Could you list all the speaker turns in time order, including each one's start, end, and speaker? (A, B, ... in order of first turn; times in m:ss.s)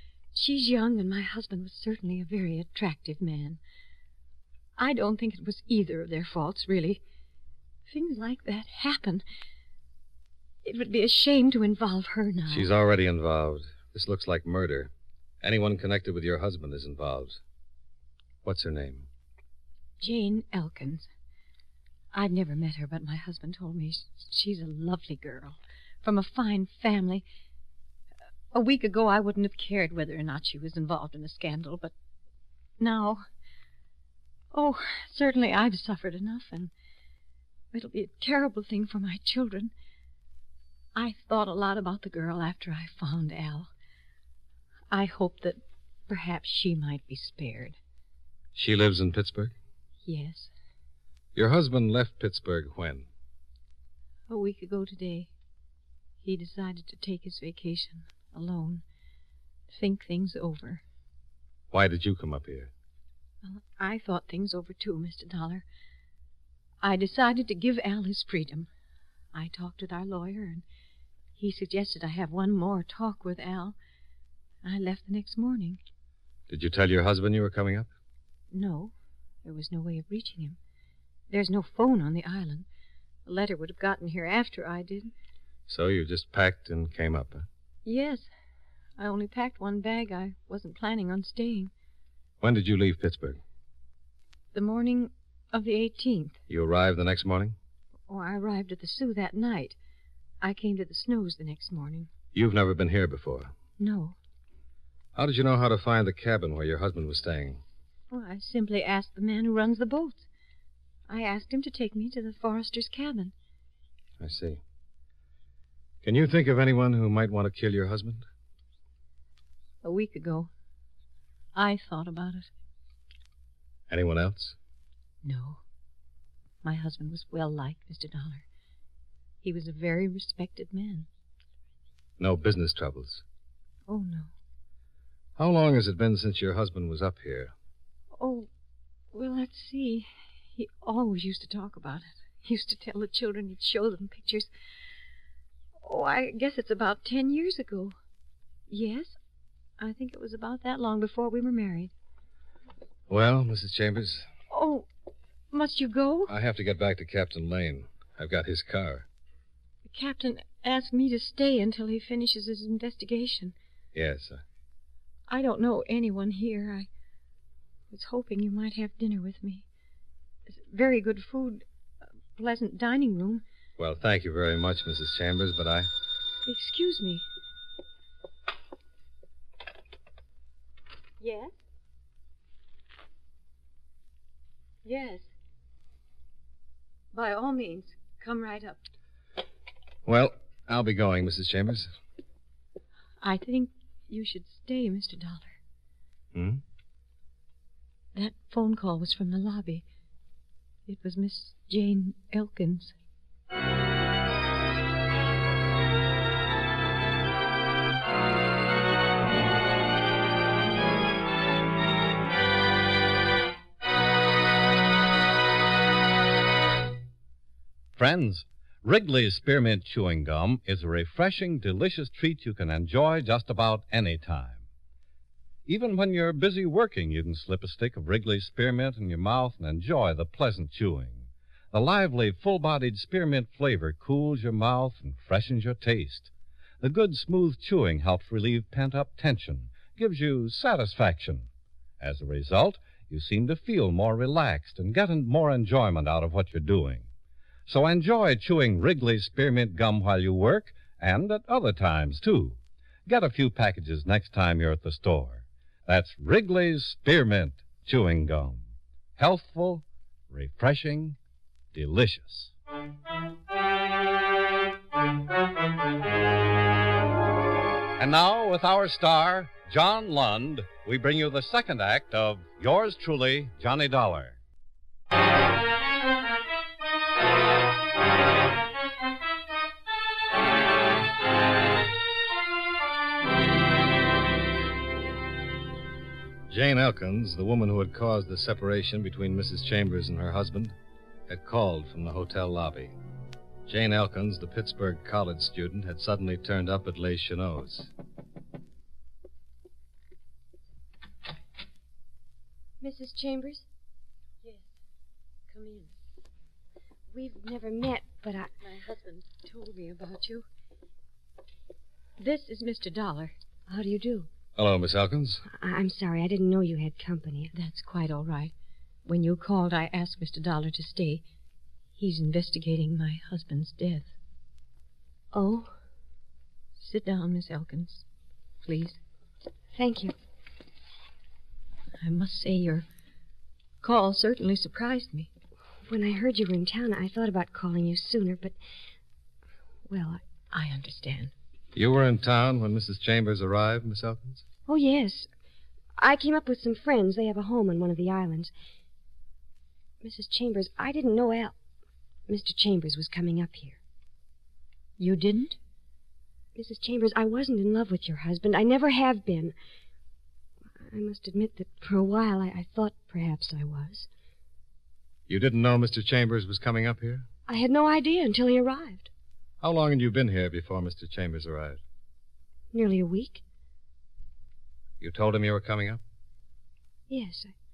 0:00.3-0:03.6 A
0:04.8-0:07.0 A
0:07.9-0:09.2 A
0:10.6-0:12.7 A
0:12.5-0:17.4 B
0:18.4-0:19.1 B
0:20.0-0:21.1 A
0:22.1-0:27.2 A
0:28.5-0:31.9 A
0:32.8-0:33.2 A
0:34.5-0:36.7 A
0:37.7-0:39.7 A
0:40.9-0:43.7 A
0:44.9-0:47.8 A
0:48.5-0:49.5 B
0:50.0-0:50.5 A
0:51.3-0:53.1 B
0:54.3-0:55.3 A
0:56.2-0:58.8 A
0:59.7-1:00.8 A
1:01.7-1:02.7 B
1:03.4-1:05.6 A
1:06.8-1:08.7 A
1:09.3-1:10.6 A
1:11.4-1:13.8 A
1:14.6-1:15.8 A
1:16.5-1:17.9 B
1:18.5-1:20.6 A
1:21.3-1:22.7 A
1:23.2-1:25.1 A
1:25.7-1:27.5 B
1:27.8-1:28.3 A
1:29.0-1:31.7 A
1:32.4-1:33.4 B
1:34.5-1:36.4 A
1:36.5-1:37.6 B
1:38.1-1:39.8 A
1:40.4-1:42.1 A
1:42.3-1:43.5 B
1:43.8-1:44.2 A
1:45.1-1:47.6 B
1:48.1-1:50.3 A
1:51.1-1:53.3 A
1:54.2-1:54.6 B
1:56.0-1:58.3 B
1:59.8-2:00.5 A
2:01.5-2:02.5 A
2:03.9-2:04.6 B
2:05.2-2:05.6 A
2:06.6-2:08.4 A
2:09.4-2:11.1 A
2:12.2-2:13.2 B
2:13.9-2:14.3 A
2:15.4-2:17.5 B
2:18.1-2:18.5 A
2:19.1-2:24.5 A
2:25.8-2:27.9 A
2:28.7-2:29.2 A
2:29.8-2:31.9 A
2:33.1-2:34.3 B
2:34.5-2:34.9 A
2:35.5-2:36.3 A
2:36.3-2:39.1 B
2:39.9-2:43.5 A
2:43.9-2:44.4 B
2:45.3-2:46.9 A
2:47.9-2:49.6 A
2:50.5-2:51.6 A
2:52.4-2:53.4 A
2:53.8-2:55.9 B
2:56.4-2:57.2 A
3:01.2-3:01.5 A
3:04.8-3:05.3 A
3:07.1-3:08.9 A
3:10.0-3:11.9 B
3:13.2-3:15.6 A
3:16.3-3:16.6 B
3:18.1-3:19.8 A
3:20.9-3:22.9 A
3:37.9-3:44.6 C
3:45.6-3:56.3 C
3:56.8-4:01.5 C
4:02.0-4:07.1 C
4:07.7-4:18.6 C
4:19.2-4:21.2 C
4:21.7-4:22.5 C
4:28.0-4:34.4 C
4:46.5-4:50.7 B
4:51.3-4:52.9 B
4:53.6-4:57.9 B
5:02.8-5:03.6 D
5:05.5-5:05.9 A
5:07.1-5:08.5 D
5:08.6-5:10.4 A
5:12.2-5:13.3 A
5:13.7-5:14.3 D
5:14.6-5:15.4 B
5:15.5-5:17.5 D
5:17.5-5:18.5 A
5:19.0-5:21.2 A
5:22.0-5:24.1 A
5:25.3-5:25.7 D
5:26.8-5:28.0 A
5:28.6-5:29.0 A
5:29.7-5:30.1 D
5:32.0-5:32.8 A
5:33.8-5:35.3 A
5:35.9-5:38.5 D
5:39.9-5:40.2 D
5:40.5-5:41.3 A
5:41.7-5:44.4 B
5:44.7-5:45.3 D
5:46.0-5:48.5 D
5:50.0-5:51.6 D
5:52.3-5:53.8 D
5:55.0-5:55.6 A
5:56.5-5:59.5 D
6:00.8-6:04.1 D
6:05.3-6:07.3 B
6:07.5-6:09.1 D
6:09.6-6:11.8 B
6:12.7-6:13.4 D
6:15.0-6:16.0 B
6:17.1-6:17.5 D